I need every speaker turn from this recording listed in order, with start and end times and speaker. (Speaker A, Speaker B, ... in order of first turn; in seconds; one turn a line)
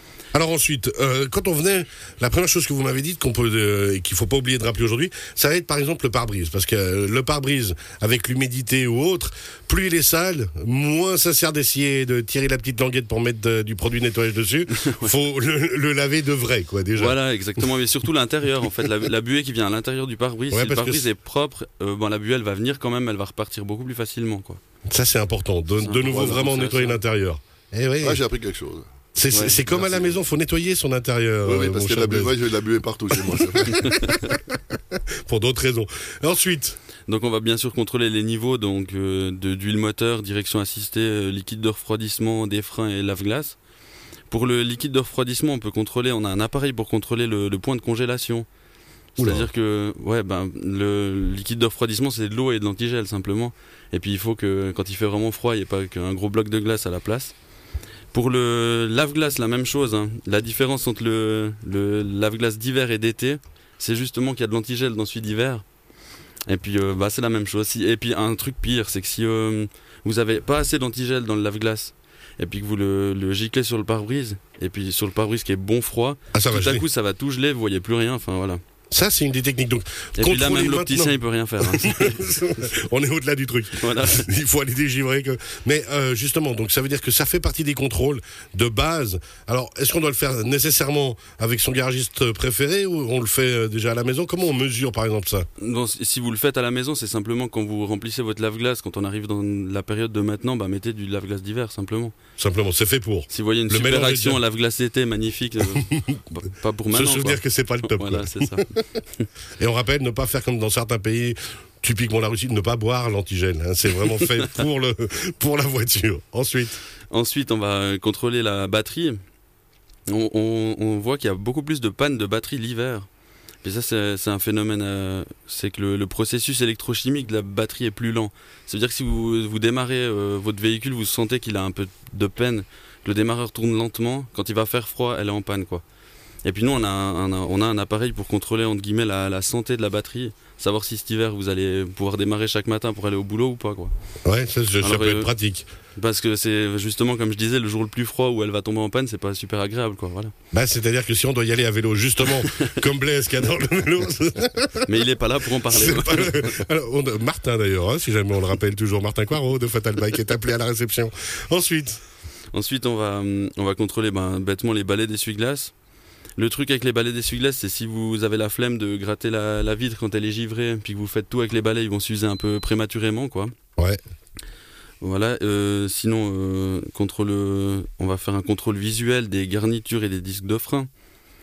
Speaker A: 0.3-17.2
Speaker B: 14.8-15.1
Speaker B: 16.9-24.6
Speaker A: 20.5-21.1
Speaker A: 24.9-28.2
Speaker B: 25.8-27.0
Speaker C: 26.1-26.4
Speaker C: 28.0-28.9
Speaker A: 29.1-32.4
Speaker B: 29.3-30.0
Speaker C: 31.4-33.8
Speaker A: 33.1-36.8
Speaker B: 33.7-34.3
Speaker B: 37.1-43.6
Speaker B: 44.3-48.5
Speaker A: 49.2-49.5
Speaker B: 49.2-57.3
Speaker B: 58.1-65.7
Speaker B: 66.5-78.6
Speaker A: 76.3-76.9
Speaker A: 78.9-95.5
Speaker B: 80.2-82.4
Speaker B: 83.8-84.3
Speaker B: 95.6-102.2
Speaker A: 102.4-104.4
Speaker B: 103.3-108.7
Speaker A: 105.7-106.2
Speaker A: 106.9-108.8
Speaker A: 109.6-116.8
Speaker B: 114.1-114.5
Speaker B: 117.1-119.2
Speaker B: 120.1-123.1
Speaker B: 123.6-135.8
Speaker B: 136.4-143.9
Speaker A: 144.2-145.7
Speaker B: 144.8-145.3
Speaker B: 145.9-150.3
Speaker A: 150.5-155.1
Speaker B: 154.8-156.6
Speaker A: 155.6-162.0
Speaker B: 162.5-165.7
Speaker B: 166.4-173.5
Speaker B: 175.0-180.9